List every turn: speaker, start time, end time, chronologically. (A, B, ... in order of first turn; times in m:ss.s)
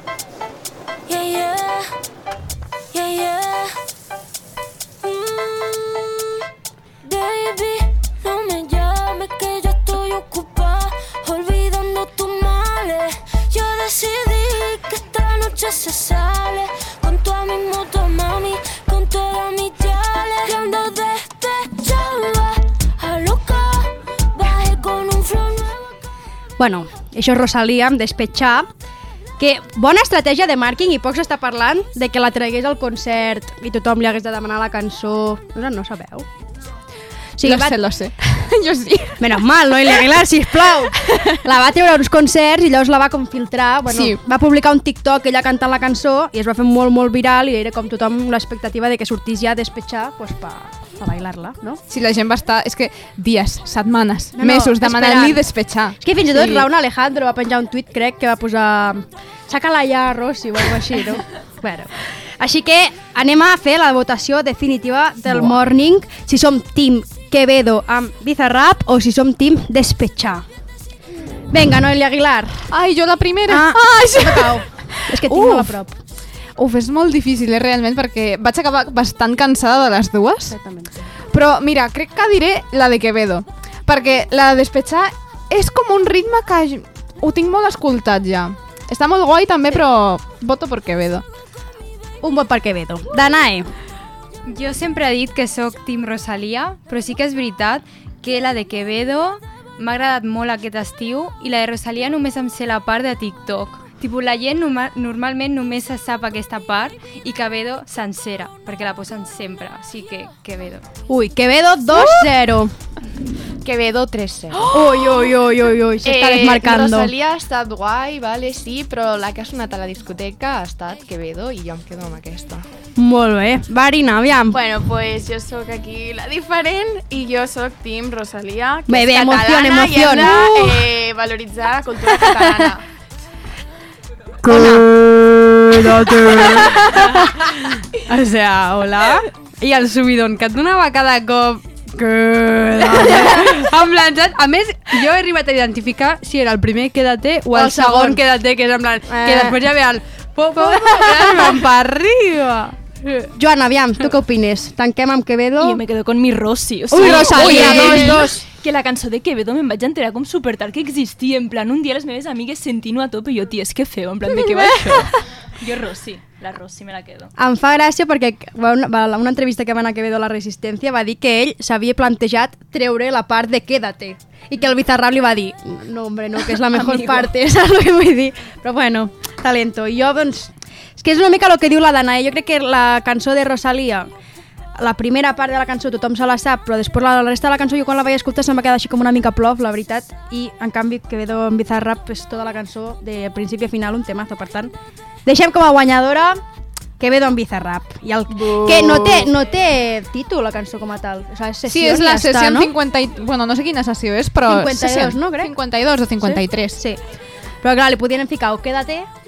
0:01.1-0:01.9 A
0:02.9-0:03.8 A
0:05.0-0:06.4 A
0:07.0-0:25.9 A
0:26.6-0:28.7 B
0:29.4-0:36.3 B
0:37.4-0:37.8 B
0:37.4-0:39.4 C
0:39.2-0:51.8 B
0:41.1-0:41.4 C
0:43.8-0:44.2 C
0:51.9-0:56.7 C
0:54.4-0:55.4 B
0:56.0-1:10.4 B
1:05.2-1:05.6 C
1:11.5-1:12.6 B
1:12.7-1:15.8 C
1:13.5-1:16.0 B
1:16.6-1:20.6 C
1:20.5-1:20.9 B
1:21.3-1:31.2 C
1:32.2-1:33.7 B
1:34.4-1:50.8 D
1:51.1-1:52.7 B
1:53.6-1:54.7 E
1:54.7-1:57.1 B
1:56.0-2:02.6 E
2:03.0-2:04.6 B
2:04.5-2:12.8 F
2:08.9-2:10.9 B
2:12.1-2:12.7 B
2:14.4-2:33.1 G
2:22.8-2:23.6 B
2:27.5-2:28.2 B
2:29.1-2:29.6 B
2:30.6-2:31.5 B
2:33.2-2:35.8 B
2:35.6-2:47.3 H
2:36.9-2:38.4 B
2:47.4-3:04.1 B
2:56.7-2:57.3 H
3:04.8-3:14.7 B
3:15.2-3:16.4 B
3:17.0-3:22.7 B
3:18.5-3:19.0 F
3:21.7-3:26.8 C
3:24.5-3:25.5 B
3:26.2-3:27.0 B
3:27.6-3:29.1 B